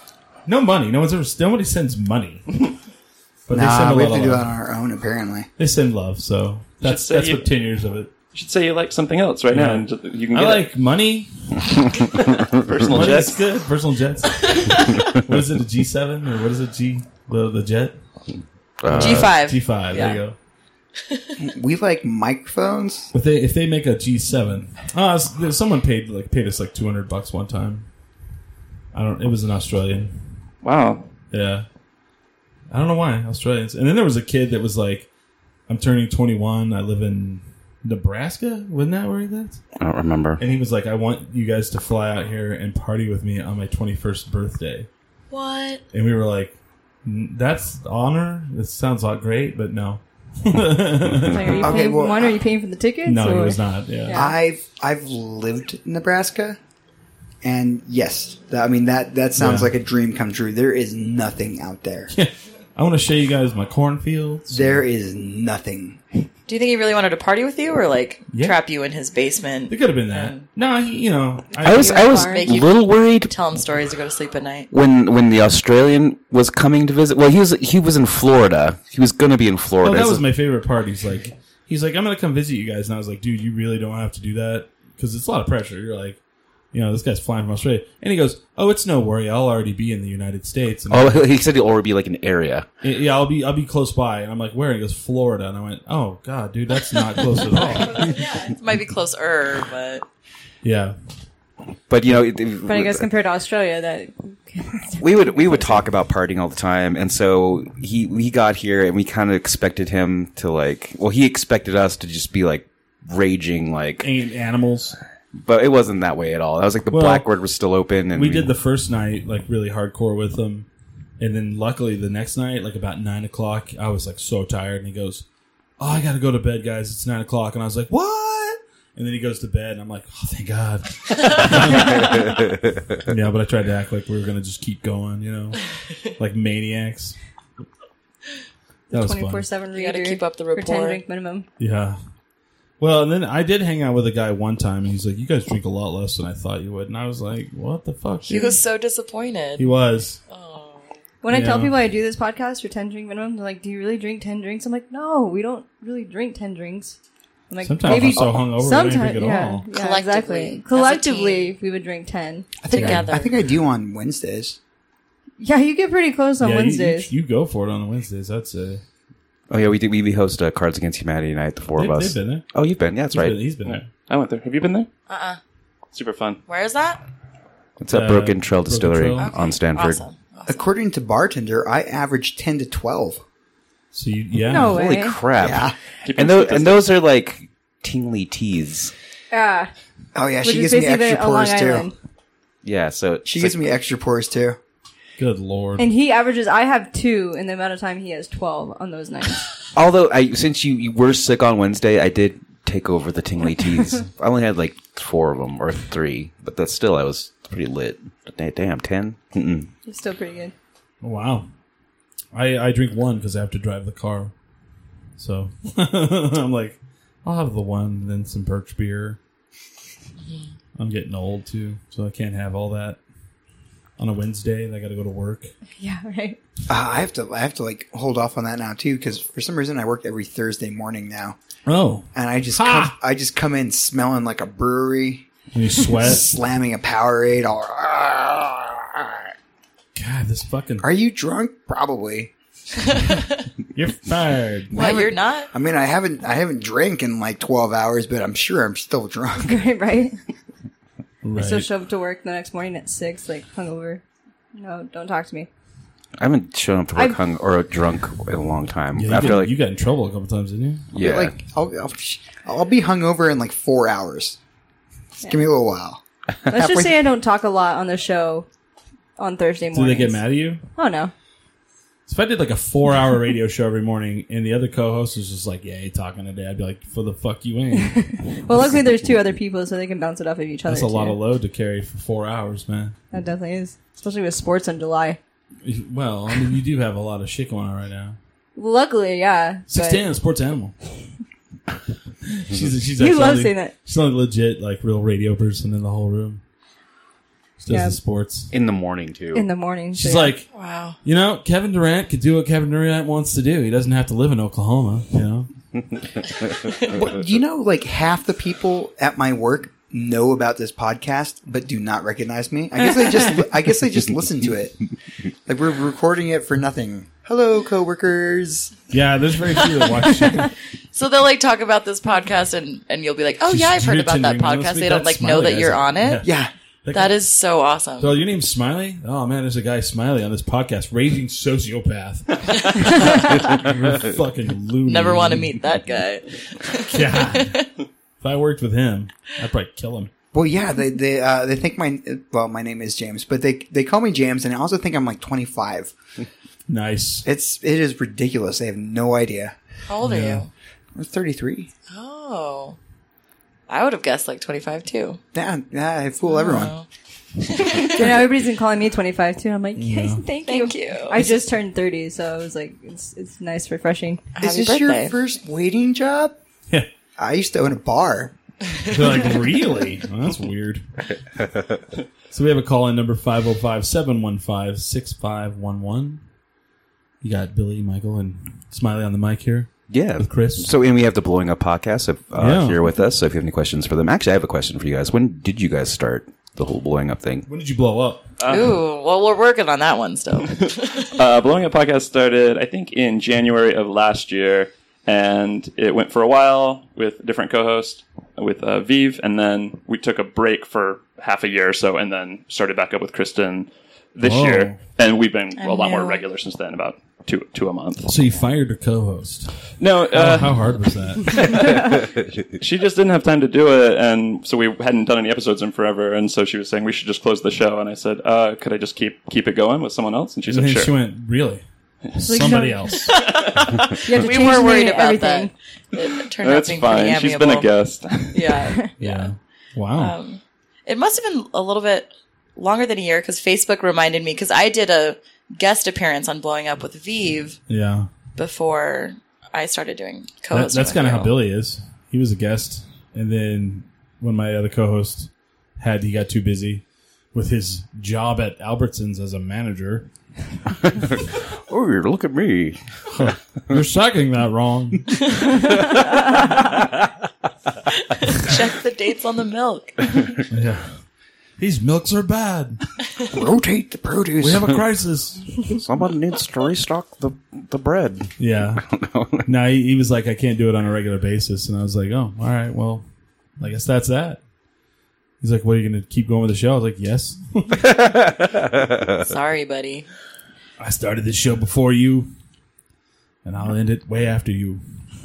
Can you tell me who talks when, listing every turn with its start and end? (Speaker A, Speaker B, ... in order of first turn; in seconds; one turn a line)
Speaker A: 0.5-2.6
Speaker A: 3.5-4.5
Speaker B: 3.5-5.5
Speaker A: 5.6-8.1
Speaker C: 6.8-7.5
Speaker C: 8.3-10.7
Speaker A: 9.5-11.9
Speaker C: 11.8-13.5
Speaker A: 12.8-18.0
Speaker D: 18.8-19.4
Speaker A: 18.9-20.4
Speaker E: 18.9-20.2
Speaker B: 21.4-23.1
Speaker A: 23.1-27.9
Speaker A: 28.9-30.1
Speaker C: 30.6-31.1
Speaker A: 31.3-31.7
Speaker A: 32.7-35.1
Speaker A: 35.7-39.6
Speaker D: 39.8-40.4
Speaker A: 40.4-44.9
Speaker E: 45.3-45.8
Speaker A: 45.9-51.9
Speaker F: 51.2-54.4
Speaker B: 51.6-52.4
Speaker A: 53.0-54.2
Speaker B: 54.1-56.6
Speaker B: 57.4-62.1
Speaker A: 59.4-59.7
Speaker A: 62.1-64.8
Speaker B: 64.5-66.0
Speaker E: 66.5-70.5
Speaker A: 68.3-68.6
Speaker A: 69.7-72.2
Speaker F: 71.5-72.5
Speaker D: 71.6-73.3
Speaker E: 72.2-74.7
Speaker D: 74.7-80.2
Speaker A: 79.8-86.2
Speaker A: 86.7-91.2
Speaker D: 90.9-92.7
Speaker A: 92.8-98.2
Speaker E: 96.9-100.0
Speaker F: 97.7-98.5
Speaker A: 100.6-101.0
Speaker D: 101.9-103.1
Speaker F: 102.7-105.8
Speaker D: 105.0-114.1
Speaker A: 114.0-115.0
Speaker D: 115.4-118.5
Speaker A: 116.9-117.3
Speaker A: 118.1-120.7
Speaker A: 121.2-125.2
Speaker A: 125.8-135.6
Speaker A: 136.2-137.2
Speaker A: 138.9-139.5
Speaker F: 138.9-141.5
Speaker E: 139.7-141.0
Speaker A: 141.6-142.0
Speaker A: 142.8-148.6
Speaker E: 148.3-149.8
Speaker A: 149.6-150.2
Speaker E: 150.3-150.9
Speaker F: 151.2-157.0
Speaker A: 151.3-151.8
Speaker F: 157.5-162.6
Speaker A: 157.6-159.7
Speaker E: 159.7-161.6
Speaker E: 162.6-163.4
Speaker B: 162.6-164.6
Speaker A: 162.8-163.1
Speaker F: 165.4-167.1
Speaker A: 166.4-168.8
Speaker D: 169.5-173.4
Speaker A: 171.8-172.4
Speaker A: 173.1-173.9
Speaker C: 173.7-174.9
Speaker E: 175.1-175.4
Speaker C: 175.9-176.4
Speaker E: 176.5-177.0
Speaker D: 177.8-180.0
Speaker A: 177.9-179.3
Speaker E: 179.2-180.7
Speaker B: 180.5-183.2
Speaker A: 183.9-184.8
Speaker F: 184.4-185.2
Speaker D: 184.5-188.9
Speaker B: 185.4-185.8
Speaker C: 186.1-186.9
Speaker F: 189.3-189.7
Speaker B: 190.2-191.9
Speaker F: 190.4-191.9
Speaker D: 192.6-193.8
Speaker B: 193.2-194.6
Speaker A: 195.2-195.9
Speaker F: 195.8-199.4
Speaker D: 199.7-209.7
Speaker F: 209.9-210.5
Speaker A: 211.0-211.5
Speaker A: 212.3-214.3
Speaker A: 215.2-219.2
Speaker E: 220.2-220.5
Speaker A: 220.8-223.0
Speaker A: 224.0-225.5
Speaker F: 225.8-226.4
Speaker B: 226.7-231.4
Speaker A: 231.7-232.9
Speaker B: 232.2-235.3
Speaker A: 235.5-236.3
Speaker B: 235.8-239.2
Speaker A: 239.9-240.9
Speaker B: 240.8-242.3
Speaker E: 242.8-243.5
Speaker A: 243.7-244.8
Speaker E: 244.7-245.5
Speaker B: 244.7-249.6
Speaker F: 249.4-250.2
Speaker A: 251.2-251.7
Speaker F: 251.4-254.0
Speaker F: 254.5-255.5
Speaker D: 256.2-259.6
Speaker A: 258.9-260.9
Speaker D: 260.9-261.4
Speaker B: 261.0-264.4
Speaker B: 265.2-267.0
Speaker F: 266.5-268.5
Speaker F: 269.2-271.1
Speaker A: 269.7-270.6
Speaker A: 272.1-278.0
Speaker F: 277.8-281.2
Speaker A: 280.7-282.9
Speaker F: 283.1-285.2
Speaker A: 285.6-288.2
Speaker F: 288.6-290.0
Speaker A: 289.7-290.7
Speaker A: 292.3-296.4
Speaker F: 293.0-293.7
Speaker A: 297.6-298.5
Speaker F: 297.7-298.0
Speaker D: 298.5-299.5
Speaker F: 299.3-300.3
Speaker A: 299.9-300.5
Speaker E: 300.5-301.0
Speaker A: 301.0-305.5
Speaker B: 306.9-314.9
Speaker B: 315.5-318.8
Speaker A: 318.9-320.5
Speaker E: 319.6-320.4
Speaker E: 320.9-326.3
Speaker A: 323.4-326.3
Speaker B: 326.2-326.5
Speaker A: 326.9-327.2
Speaker E: 326.9-328.2
Speaker A: 328.0-335.8
Speaker E: 332.6-333.6
Speaker E: 334.8-337.7
Speaker A: 336.8-337.6
Speaker A: 338.2-340.1
Speaker B: 340.3-345.9
Speaker A: 346.7-347.3
Speaker B: 347.2-349.6
Speaker E: 349.9-350.5
Speaker A: 350.0-350.4
Speaker B: 351.0-351.7
Speaker E: 351.9-352.8
Speaker E: 353.7-355.2
Speaker B: 355.3-356.7
Speaker E: 356.3-356.9
Speaker E: 357.4-358.1
Speaker F: 357.7-364.3
Speaker A: 359.8-360.2
Speaker E: 360.4-361.3
Speaker E: 364.4-365.2
Speaker B: 364.4-366.4
Speaker B: 367.2-368.3
Speaker A: 368.9-370.8
Speaker A: 372.3-376.2
Speaker A: 377.2-380.7
Speaker D: 379.9-387.5
Speaker A: 382.4-382.8
Speaker A: 387.5-388.3
Speaker C: 388.4-388.8
Speaker E: 388.5-391.1
Speaker C: 391.0-408.1
Speaker A: 404.2-404.8
Speaker E: 405.6-406.2
Speaker A: 408.1-409.5
Speaker C: 409.8-420.9
Speaker A: 410.1-411.9
Speaker A: 420.5-421.6
Speaker A: 422.1-423.2
Speaker F: 422.2-423.1
Speaker E: 423.2-427.7
Speaker C: 423.4-423.8
Speaker F: 424.0-425.5
Speaker C: 426.2-428.6
Speaker E: 428.3-429.3
Speaker A: 429.0-430.1
Speaker E: 429.9-437.6
Speaker A: 437.7-438.1
Speaker E: 438.4-441.4
Speaker A: 440.5-450.1
Speaker D: 451.1-452.9
Speaker A: 453.1-455.1
Speaker E: 458.2-460.2
Speaker A: 460.5-460.9
Speaker A: 461.6-462.8
Speaker B: 463.3-464.8
Speaker A: 464.4-465.8
Speaker D: 465.7-468.3
Speaker A: 468.4-468.9
Speaker D: 468.9-469.5
Speaker A: 469.4-473.1
Speaker A: 473.6-474.4
Speaker A: 475.4-477.9
Speaker D: 478.1-479.1
Speaker E: 479.2-480.1
Speaker A: 480.8-482.3
Speaker A: 483.4-484.8